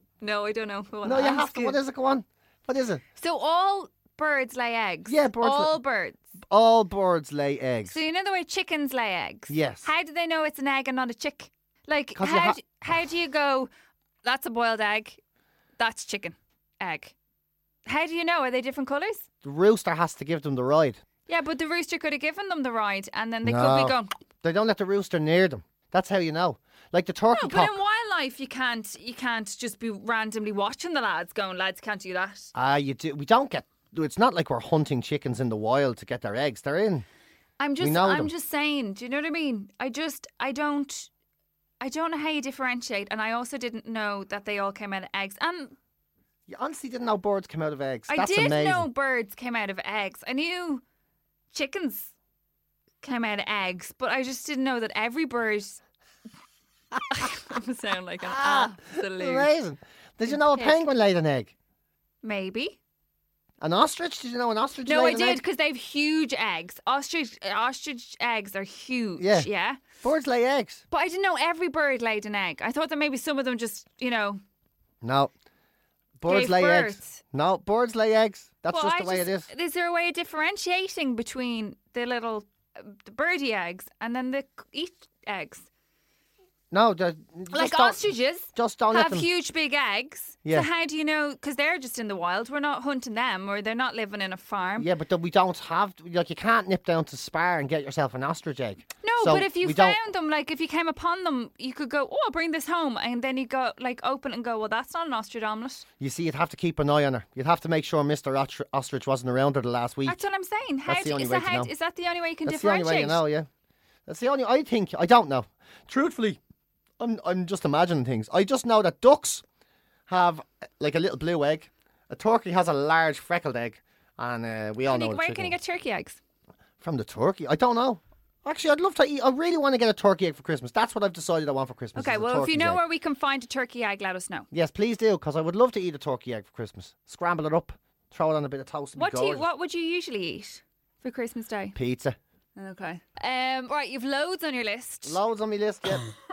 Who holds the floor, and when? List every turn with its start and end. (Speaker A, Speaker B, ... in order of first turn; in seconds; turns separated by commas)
Speaker A: 0.2-1.8, Speaker B: 1.0-3.0, Speaker A: 3.2-6.2, Speaker B: 5.1-5.7, Speaker B: 6.5-8.0, Speaker A: 7.8-13.7, Speaker B: 9.5-9.9, Speaker B: 12.2-12.6, Speaker A: 14.2-15.2, Speaker A: 15.8-17.1, Speaker A: 17.9-19.3, Speaker B: 19.4-21.0, Speaker A: 21.3-24.1, Speaker B: 23.4-27.7, Speaker A: 27.3-32.5, Speaker B: 32.5-37.1, Speaker A: 37.6-41.1, Speaker B: 37.8-38.3, Speaker A: 41.8-45.8, Speaker B: 46.5-48.9, Speaker A: 48.1-50.8, Speaker A: 51.5-52.1, Speaker A: 53.0-55.8, Speaker A: 57.1-59.5, Speaker B: 58.2-61.5, Speaker A: 60.3-60.8, Speaker A: 62.2-62.8, Speaker B: 63.6-65.4, Speaker A: 64.8-69.8, Speaker B: 69.2-69.5, Speaker B: 70.0-70.8, Speaker A: 70.9-74.4, Speaker B: 75.0-75.3, Speaker B: 76.2-79.5, Speaker A: 76.2-77.2, Speaker A: 78.7-85.7, Speaker B: 86.7-89.3, Speaker A: 87.5-94.9, Speaker B: 94.8-100.0, Speaker A: 99.0-105.8, Speaker B: 106.0-110.2, Speaker A: 110.1-113.2, Speaker B: 110.9-111.7, Speaker B: 112.5-113.5, Speaker B: 114.1-116.4, Speaker B: 117.0-119.4, Speaker B: 120.1-125.5, Speaker A: 124.9-126.2, Speaker B: 126.8-132.8, Speaker A: 131.9-134.5, Speaker B: 134.5-139.5, Speaker A: 138.9-141.8, Speaker B: 141.8-142.2, Speaker A: 142.6-145.2, Speaker B: 145.0-146.1